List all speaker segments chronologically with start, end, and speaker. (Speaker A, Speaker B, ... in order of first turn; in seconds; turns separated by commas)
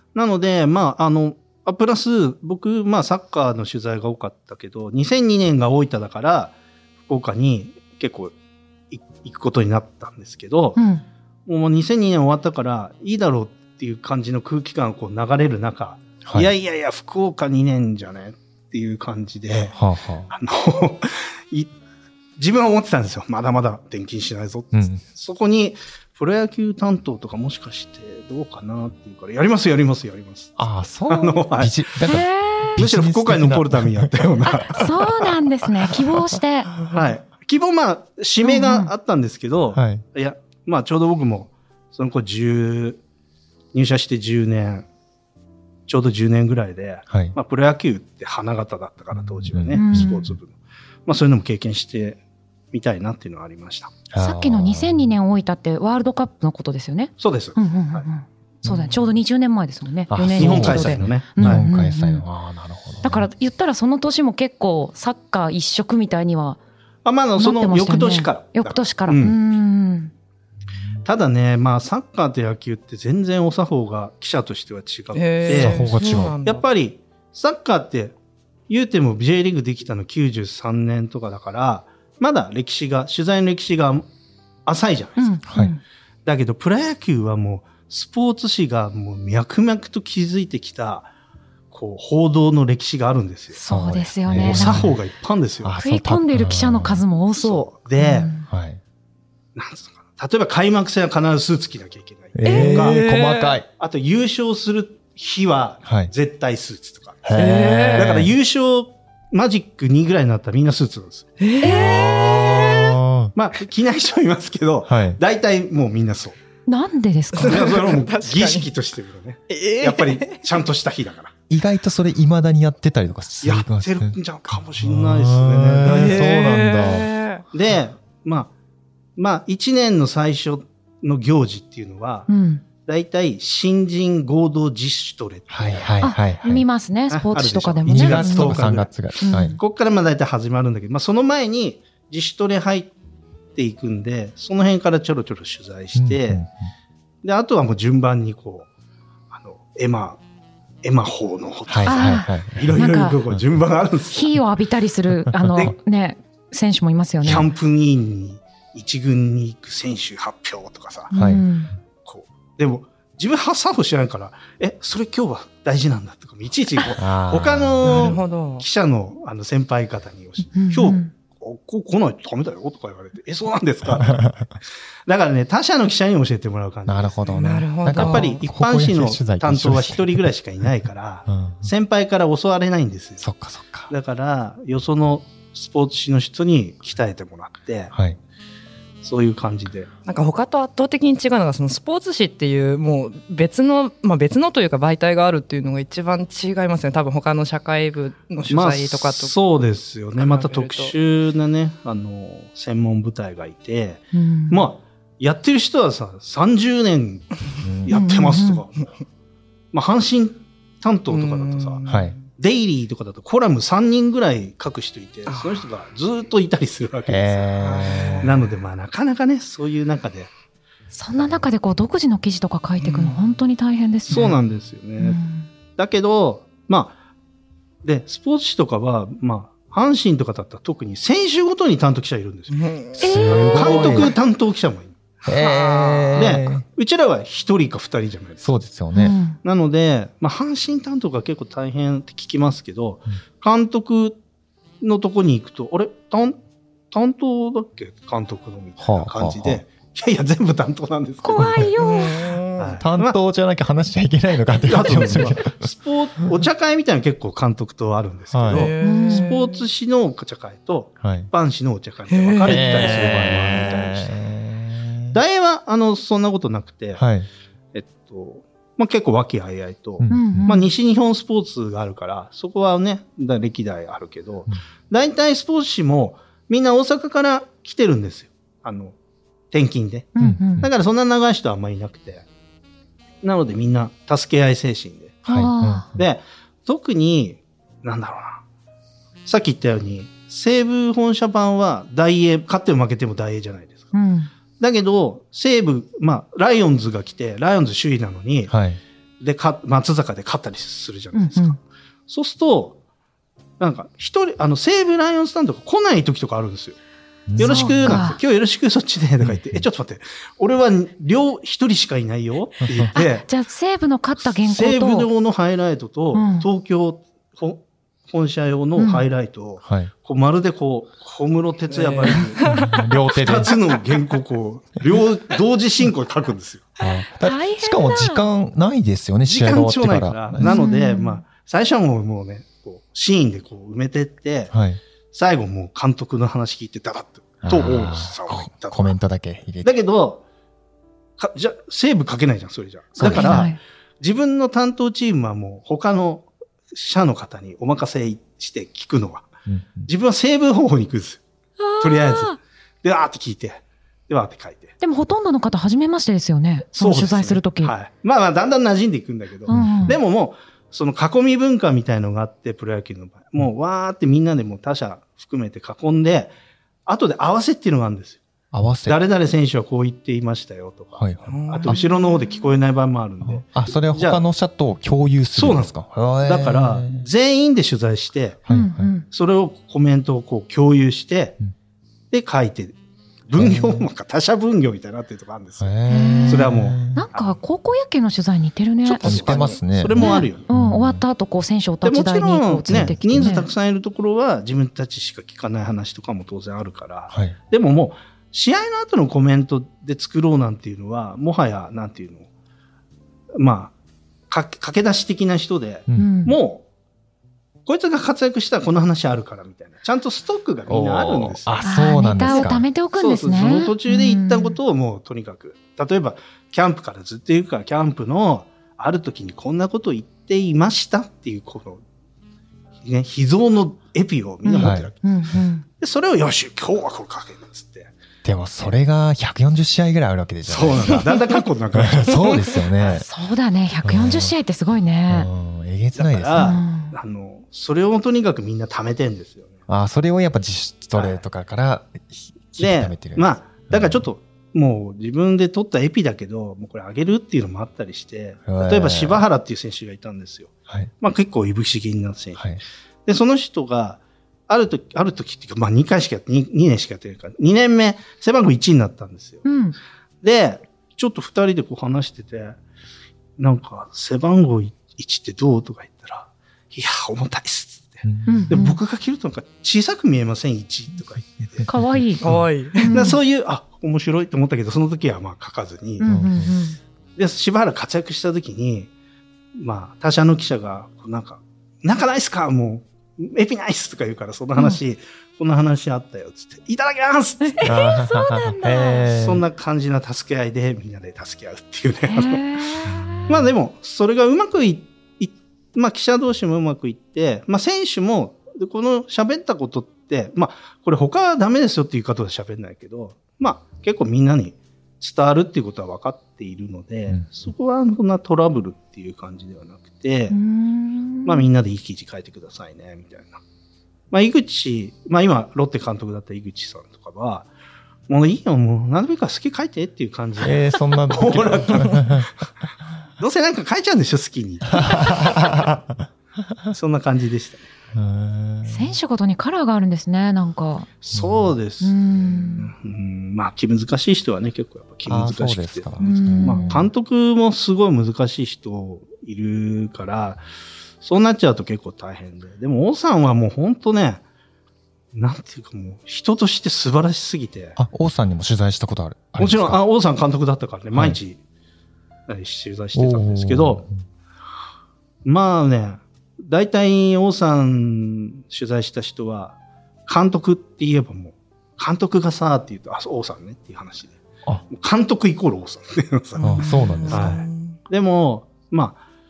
Speaker A: 0.1-8.3, Speaker A: 8.9-10.8, Speaker B: 10.8-11.0, Speaker A: 11.4-19.8, Speaker C: 16.2-16.5, Speaker C: 19.7-20.3, Speaker A: 20.3-21.7, Speaker A: 22.4-30.6, Speaker C: 24.7-25.0, Speaker C: 30.6-36.1, Speaker A: 31.1-31.9, Speaker B: 32.0-32.9, Speaker A: 32.8-34.9, Speaker B: 34.4-36.7, Speaker A: 36.9-43.0, Speaker B: 38.4-38.9, Speaker C: 39.7-40.0, Speaker A: 43.7-44.9, Speaker A: 45.9-50.5, Speaker C: 47.1-47.4, Speaker C: 49.1-50.1, Speaker B: 49.7-50.4, Speaker A: 51.0-52.2, Speaker A: 52.7-54.0, Speaker C: 54.1-55.1, Speaker B: 54.1-62.2, Speaker A: 57.2-58.0, Speaker C: 58.6-59.0, Speaker C: 60.1-63.3, Speaker A: 60.4-61.6, Speaker B: 63.0-66.6, Speaker A: 67.0-69.4, Speaker B: 67.4-70.1, Speaker A: 71.0-78.1, Speaker D: 75.1-76.6, Speaker C: 75.5-76.4, Speaker A: 78.7-84.1, Speaker A: 84.7-85.4, Speaker B: 85.2-85.8, Speaker A: 86.2-91.1, Speaker A: 91.7-93.6, Speaker B: 93.5-94.9, Speaker C: 93.7-95.0, Speaker A: 94.3-95.8, Speaker C: 95.6-97.0, Speaker B: 95.8-98.5, Speaker A: 97.4-98.3, Speaker C: 98.5-98.8, Speaker A: 99.5-103.0, Speaker C: 102.3-103.7, Speaker D: 102.4-103.6, Speaker A: 103.8-107.3, Speaker C: 105.8-106.1, Speaker C: 107.2-108.3, Speaker D: 107.3-108.3, Speaker A: 107.9-111.3, Speaker D: 111.4-112.9, Speaker C: 111.6-113.3, Speaker A: 113.3-116.3, Speaker C: 114.8-115.2, Speaker B: 116.7-117.7, Speaker D: 117.3-118.7, Speaker A: 117.4-121.3, Speaker D: 119.5-120.4, Speaker C: 121.5-127.1, Speaker A: 123.4-126.5, Speaker D: 125.8-127.4, Speaker A: 127.5-128.5, Speaker A: 129.2-132.3, Speaker B: 132.3-132.6, Speaker A: 132.8-135.9, Speaker C: 135.5-136.6, Speaker B: 136.0-138.6, Speaker A: 137.1-142.9, Speaker C: 137.8-139.6, Speaker B: 139.2-139.6, Speaker A: 143.5-146.4, Speaker C: 145.9-146.5, Speaker A: 147.2-148.7, Speaker A: 149.3-150.2, Speaker A: 150.8-154.3, Speaker C: 151.7-153.4, Speaker B: 151.8-153.2, Speaker B: 154.1-157.5, Speaker C: 155.3-155.6, Speaker A: 157.2-161.1, Speaker B: 161.1-161.7, Speaker C: 161.1-161.4, Speaker A: 162.0-174.3, Speaker C: 167.0-168.2, Speaker D: 167.8-168.6, Speaker B: 170.5-171.1, Speaker C: 174.0-174.4, Speaker A: 175.1-177.2, Speaker C: 176.9-180.3, Speaker D: 177.3-178.4, Speaker A: 177.9-183.2, Speaker C: 181.3-181.7, Speaker C: 183.2-183.9, Speaker A: 183.9-187.9, Speaker C: 187.9-188.2, Speaker A: 189.0-189.9, Speaker D: 190.1-199.4, Speaker A: 198.5-208.9, Speaker D: 200.2-200.9, Speaker B: 204.1-204.7, Speaker C: 207.6-208.0, Speaker B: 207.9-208.6, Speaker A: 209.7-211.8, Speaker D: 211.1-212.2, Speaker C: 211.8-212.1, Speaker A: 212.3-217.5, Speaker D: 215.3-215.6, Speaker C: 217.1-218.4, Speaker D: 217.6-218.4, Speaker A: 218.2-220.3, Speaker B: 220.9-224.3, Speaker D: 222.8-223.2, Speaker A: 224.1-225.2, Speaker B: 225.0-225.5, Speaker A: 225.8-226.9, Speaker A: 227.8-232.7, Speaker D: 232.5-233.6, Speaker B: 233.0-234.1, Speaker C: 233.0-234.1, Speaker A: 233.3-238.5, Speaker C: 235.2-236.6, Speaker D: 235.3-236.2, Speaker C: 238.4-239.2, Speaker B: 238.9-239.4, Speaker A: 239.4-244.2, Speaker A: 244.8-246.4, Speaker A: 246.9-251.7, Speaker C: 248.8-249.6, Speaker B: 251.2-252.3, Speaker C: 251.4-251.7, Speaker D: 251.8-252.8, Speaker A: 252.6-253.2, Speaker C: 252.8-255.7, Speaker A: 254.6-264.2, Speaker C: 258.3-258.7, Speaker D: 258.5-259.6, Speaker B: 258.8-259.3, Speaker C: 261.0-261.3, Speaker D: 262.1-263.5, Speaker C: 262.4-265.2, Speaker A: 265.1-267.0, Speaker C: 266.9-267.3, Speaker A: 267.7-278.9, Speaker C: 270.0-270.6, Speaker B: 270.1-270.7, Speaker A: 279.5-282.2, Speaker B: 280.1-280.7, Speaker C: 280.2-280.7, Speaker A: 283.2-285.2, Speaker C: 285.2-286.0, Speaker B: 285.2-285.9, Speaker A: 285.9-288.4, Speaker A: 289.2-293.9, Speaker B: 293.9-294.3, Speaker A: 294.6-298.5, Speaker C: 298.5-298.8, Speaker A: 299.2-302.8, Speaker B: 301.1-301.6, Speaker A: 303.6-306.8, Speaker C: 307.3-308.0, Speaker B: 307.4-308.2, Speaker A: 307.4-313.3, Speaker C: 309.2-309.6, Speaker C: 312.6-312.9, Speaker B: 312.9-315.1, Speaker A: 314.4-326.7, Speaker B: 316.1-316.5, Speaker B: 318.8-319.1, Speaker C: 319.6-319.9, Speaker D: 321.7-322.8, Speaker C: 322.4-323.6, Speaker C: 326.8-330.6, Speaker B: 327.1-328.2, Speaker A: 329.2-334.5, Speaker B: 330.4-331.2, Speaker C: 334.5-334.8, Speaker A: 335.1-338.9, Speaker C: 337.4-339.8, Speaker A: 339.6-340.2, Speaker A: 341.2-349.3, Speaker C: 343.0-343.5, Speaker B: 343.0-343.6, Speaker C: 349.5-349.9, Speaker A: 349.9-351.2, Speaker B: 351.6-352.4, Speaker A: 351.8-354.7, Speaker B: 354.8-357.7, Speaker A: 356.7-366.3, Speaker B: 359.5-360.0, Speaker C: 359.5-360.0, Speaker A: 366.9-368.2, Speaker C: 368.5-369.0, Speaker A: 368.9-374.2, Speaker C: 371.0-371.8, Speaker D: 371.2-371.9, Speaker C: 373.2-377.1, Speaker A: 375.3-378.4, Speaker C: 378.4-378.9, Speaker B: 378.5-379.1, Speaker A: 379.0-381.4, Speaker A: 382.1-385.8, Speaker C: 383.3-383.9, Speaker C: 385.6-387.1, Speaker B: 385.9-393.5, Speaker A: 386.3-387.4, Speaker A: 388.8-390.4, Speaker C: 389.0-391.0, Speaker A: 391.8-402.3, Speaker C: 392.7-392.9, Speaker C: 397.1-397.4, Speaker A: 403.4-403.7, Speaker A: 404.3-406.6, Speaker B: 405.9-406.4, Speaker A: 407.6-421.8, Speaker C: 410.7-412.7, Speaker B: 411.6-414.6, Speaker A: 422.8-424.9, Speaker B: 424.4-425.6, Speaker C: 424.6-424.9, Speaker A: 425.8-427.9, Speaker C: 428.2-431.2, Speaker A: 430.5-433.0, Speaker C: 431.7-433.1, Speaker B: 432.9-435.3, Speaker C: 433.8-434.3, Speaker C: 435.1-436.6, Speaker A: 435.9-439.6, Speaker B: 436.4-436.9, Speaker C: 439.7-444.0, Speaker A: 440.9-441.2, Speaker A: 442.6-459.4, Speaker C: 448.4-449.2, Speaker B: 459.4-459.8, Speaker A: 460.2-462.6, Speaker A: 463.4-471.7, Speaker C: 468.1-468.6, Speaker B: 468.2-468.8, Speaker C: 471.6-472.4, Speaker B: 471.6-472.2, Speaker D: 472.2-472.9, Speaker B: 472.8-473.2, Speaker A: 472.9-476.2, Speaker B: 476.0-476.8, Speaker C: 476.0-476.6, Speaker A: 477.1-478.9, Speaker A: 479.6-487.8, Speaker B: 487.4-489.1, Speaker C: 487.6-489.4, Speaker A: 489.1-492.4, Speaker B: 492.1-493.3, Speaker C: 492.9-493.4, Speaker A: 493.3-510.4, Speaker B: 510.3-511.4, Speaker A: 511.2-513.4, Speaker A: 514.1-517.5, Speaker A: 518.1-522.3, Speaker C: 520.4-522.3, Speaker A: 523.2-525.3, Speaker C: 524.8-526.1, Speaker A: 526.7-527.7, Speaker C: 527.9-529.0, Speaker B: 528.6-530.9, Speaker A: 531.0-540.4, Speaker C: 531.1-531.5, Speaker B: 531.8-532.7, Speaker C: 535.0-536.9, Speaker B: 536.0-536.8, Speaker A: 541.0-544.2, Speaker A: 545.1-547.8, Speaker C: 547.8-549.8, Speaker A: 549.4-551.4, Speaker A: 552.3-553.8, Speaker C: 552.9-553.9, Speaker A: 555.2-564.2, Speaker A: 564.7-569.0, Speaker D: 566.4-567.8, Speaker C: 566.4-567.4